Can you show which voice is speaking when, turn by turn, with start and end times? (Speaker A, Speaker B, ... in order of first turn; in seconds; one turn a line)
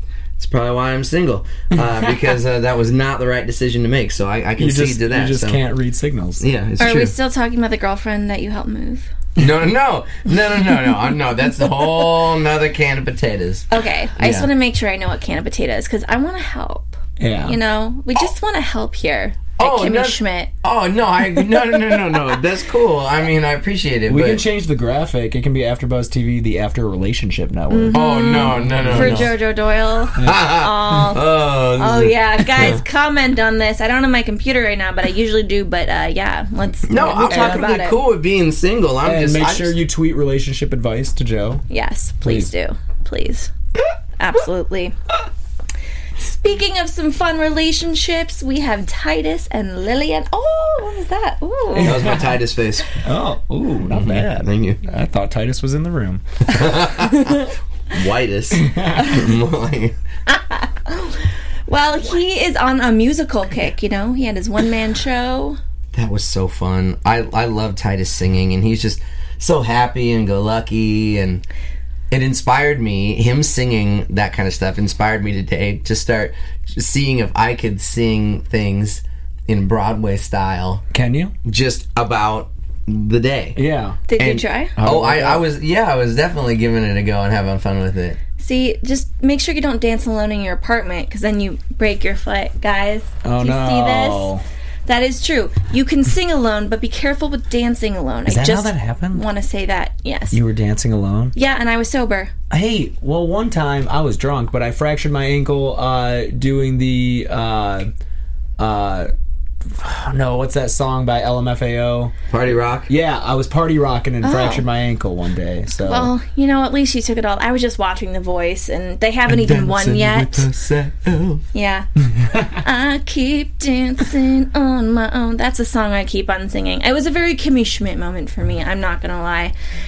Speaker A: 0.4-5.6
Speaker B: 4.6-6.4
Speaker A: 6.4-7.1
Speaker C: 6.8-9.1
Speaker A: 9.4-13.7
Speaker C: 13.7-20.5
Speaker A: 14.2-14.5
Speaker B: 17.2-17.6
Speaker A: 19.6-24.4
Speaker B: 24.1-29.3
Speaker C: 27.7-31.2
Speaker A: 27.9-29.3
Speaker B: 30.2-30.5
Speaker A: 30.2-32.8
Speaker C: 31.8-38.0
Speaker A: 36.9-39.7
Speaker B: 37.2-37.6
Speaker B: 39.0-41.6
Speaker C: 41.7-43.5
Speaker B: 42.2-42.5
Speaker C: 44.2-44.9
Speaker C: 46.2-52.1
Speaker A: 51.7-52.9
Speaker B: 51.8-52.2
Speaker B: 53.0-56.2
Speaker A: 53.9-54.8
Speaker A: 56.5-60.0
Speaker B: 58.5-59.1
Speaker C: 60.3-65.6
Speaker A: 65.9-71.4
Speaker A: 72.1-80.8
Speaker B: 80.9-81.3
Speaker A: 81.4-83.6
Speaker B: 83.5-84.0
Speaker C: 84.1-84.7
Speaker A: 84.2-88.2
Speaker B: 84.8-85.4
Speaker C: 88.4-94.3
Speaker B: 93.2-94.4
Speaker C: 94.8-100.4
Speaker B: 98.3-99.2
Speaker B: 100.3-101.3
Speaker C: 101.3-102.3
Speaker B: 102.5-107.9
Speaker B: 108.6-109.1
Speaker B: 109.7-112.1
Speaker A: 112.3-112.9
Speaker B: 112.9-116.1
Speaker C: 114.2-114.6
Speaker C: 115.8-120.5
Speaker A: 119.3-121.4
Speaker C: 121.5-121.9
Speaker C: 122.5-129.5